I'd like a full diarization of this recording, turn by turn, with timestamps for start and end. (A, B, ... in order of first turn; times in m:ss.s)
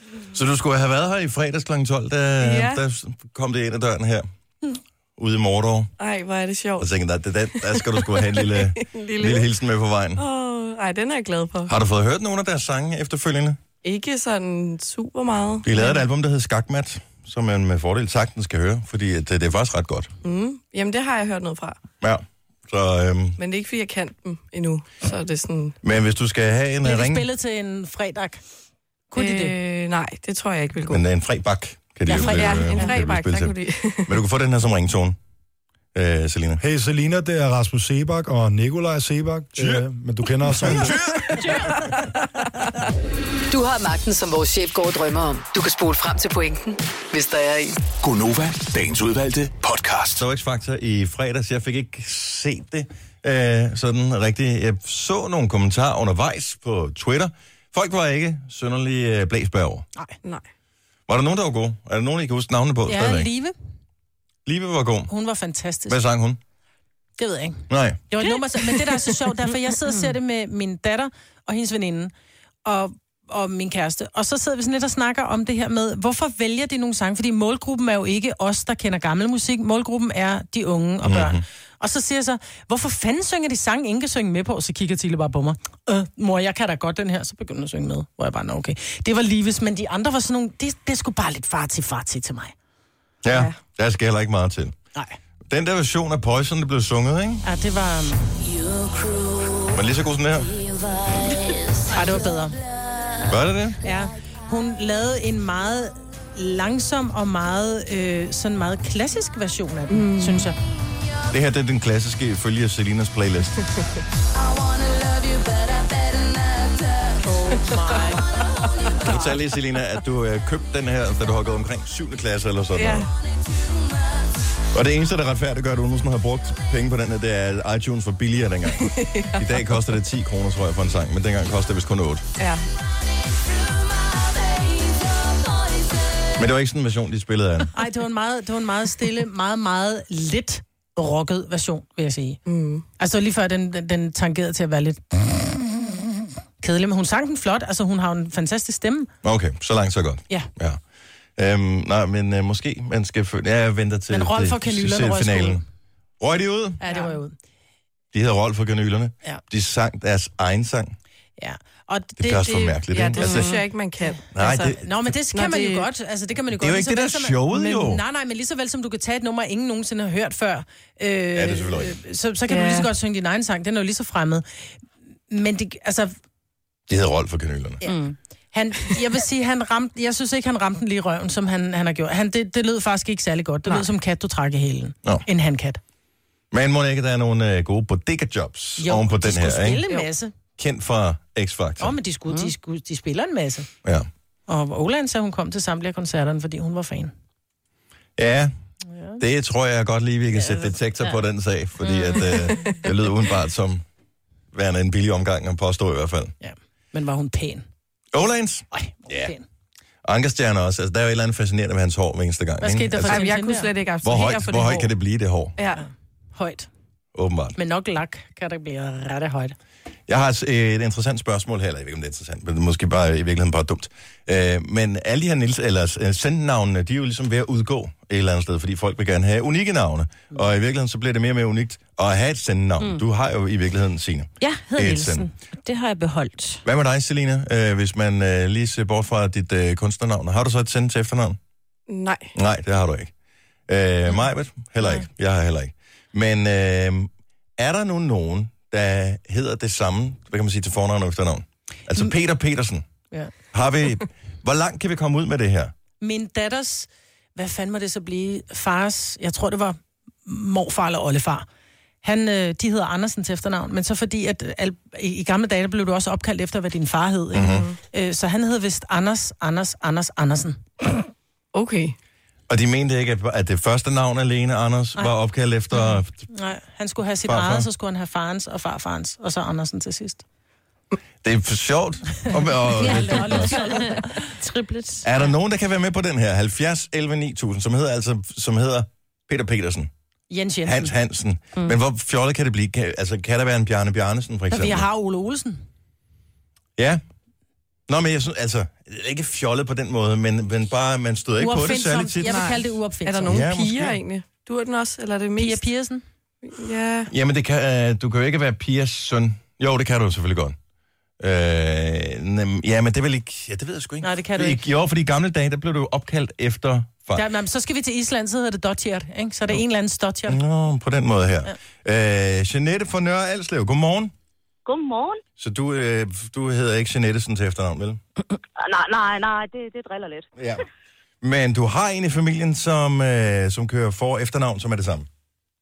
0:00.3-0:04.3 A
0:02.4-0:02.8 B
0:05.2-0:05.9 A
0:06.0-0:06.9 B
0:06.8-0:10.2 A
0:07.6-0:09.5 B
0:10.2-0:11.7 B
0:11.7-0:13.6 A
0:13.8-0:16.1 B
0:15.6-0:20.1 A
0:20.2-0:21.8 B
0:22.0-0:23.4 A
0:23.4-0:25.8 B
0:25.8-0:27.3 A
0:26.8-0:28.4 C
0:29.1-0:29.6 C
0:29.2-0:31.0 B
0:30.9-0:33.6 A
0:32.1-0:33.0 C
0:32.1-0:34.2 B
0:34.1-0:35.2 A
0:35.9-0:36.6 A
0:36.6-0:41.0 D
0:40.5-0:41.5 A
0:41.3-0:42.5 B
0:43.5-0:47.8 E
0:48.0-0:50.2 F
0:50.2-0:59.9 A
1:01.1-1:03.3 A
1:02.9-1:03.5 C
1:04.5-1:05.1 A
1:05.1-1:06.0 C
1:05.9-1:06.4 A
1:07.2-1:12.1 C
1:07.7-1:08.0 A
1:12.7-1:32.5 C
1:21.0-1:21.4 A
1:33.2-1:34.7 A
1:33.3-1:33.6 B
1:35.5-1:37.4 A
1:37.4-1:38.3 C
1:39.7-1:40.6 A
1:41.9-1:42.6 C
1:43.2-1:43.8 A
1:43.8-1:50.6 C
1:49.9-1:50.5 B
1:51.3-1:53.6 A
1:57.3-1:59.0 B
1:57.4-1:58.2 C
1:59.0-2:03.1 A
2:02.8-2:03.1 B
2:04.7-2:12.2 A
2:08.8-2:09.7 B
2:12.4-2:12.6 B
2:16.4-2:17.7 A
2:17.7-2:22.4 C
2:22.5-2:22.8 B
2:23.0-2:26.0 C
2:26.6-2:29.1 C
2:29.2-2:30.8 A
2:31.4-2:35.6 A
2:34.1-2:35.6 C
2:36.2-2:36.8 A
2:36.8-2:37.4 C
2:38.1-2:41.0 A
2:41.4-2:43.6 C
2:42.2-2:43.6 A
2:42.9-2:44.7 B
2:44.3-2:44.8 A
2:44.4-2:54.4 C
2:45.3-2:45.9 B
2:46.5-2:48.0 A
2:51.4-2:52.0 A
2:52.5-2:52.9 B
2:55.3-2:56.1 C
2:56.9-2:57.8 A
2:57.8-3:05.8 C
3:06.5-3:09.8 A
3:08.8-3:10.3 C
3:10.6-3:11.9 A
3:11.8-3:13.7 C
3:14.5-3:17.1 C
3:18.2-3:18.5 A
3:18.9-3:19.2 C
3:19.2-3:23.8 A
3:20.4-3:20.7 C
3:21.9-3:22.6 C
3:24.5-3:26.3 A
3:26.4-3:27.7 C
3:28.1-3:29.3 A
3:28.7-3:29.4 C
3:30.0-3:33.2 A
3:32.6-3:33.7 C
3:33.0-3:34.9 B
3:34.0-3:35.6 A
3:35.6-3:35.8 B
3:35.7-3:36.7 C
3:37.1-3:37.6 A
3:37.6-3:39.6 C
3:40.1-3:55.3 A
3:54.4-3:56.6 G
3:56.6-4:01.4 A
4:01.9-4:02.3 B
4:02.4-4:03.1 A
4:03.7-4:12.9 A
4:13.5-4:15.7 A
4:16.0-4:21.5 C
4:22.0-4:30.6 C
4:27.4-4:27.7 A
4:27.4-4:27.8 B
4:31.5-4:32.0 B
4:32.5-4:36.3 A
4:36.3-4:40.2 C
4:37.2-4:37.7 A
4:41.2-4:43.8 A
4:42.7-4:44.0 C
4:42.8-4:45.1 G
4:45.0-4:49.9 A
4:50.3-4:50.9 C
4:50.6-4:54.9 A
4:54.5-4:55.6 C
4:57.9-5:02.4 A
5:01.4-5:03.4 C
5:02.2-5:05.6 B
5:03.3-5:04.0 A
5:05.4-5:06.0 C
5:06.4-5:07.1 B
5:07.1-5:10.6 A
5:11.2-5:17.3 A
5:14.0-5:14.6 C
5:17.2-5:20.4 C
5:20.3-5:24.1 A
5:24.7-5:25.2 H
5:25.4-5:28.0 A
5:28.6-5:30.3 H
5:30.4-5:30.6 A
5:31.2-5:35.1 A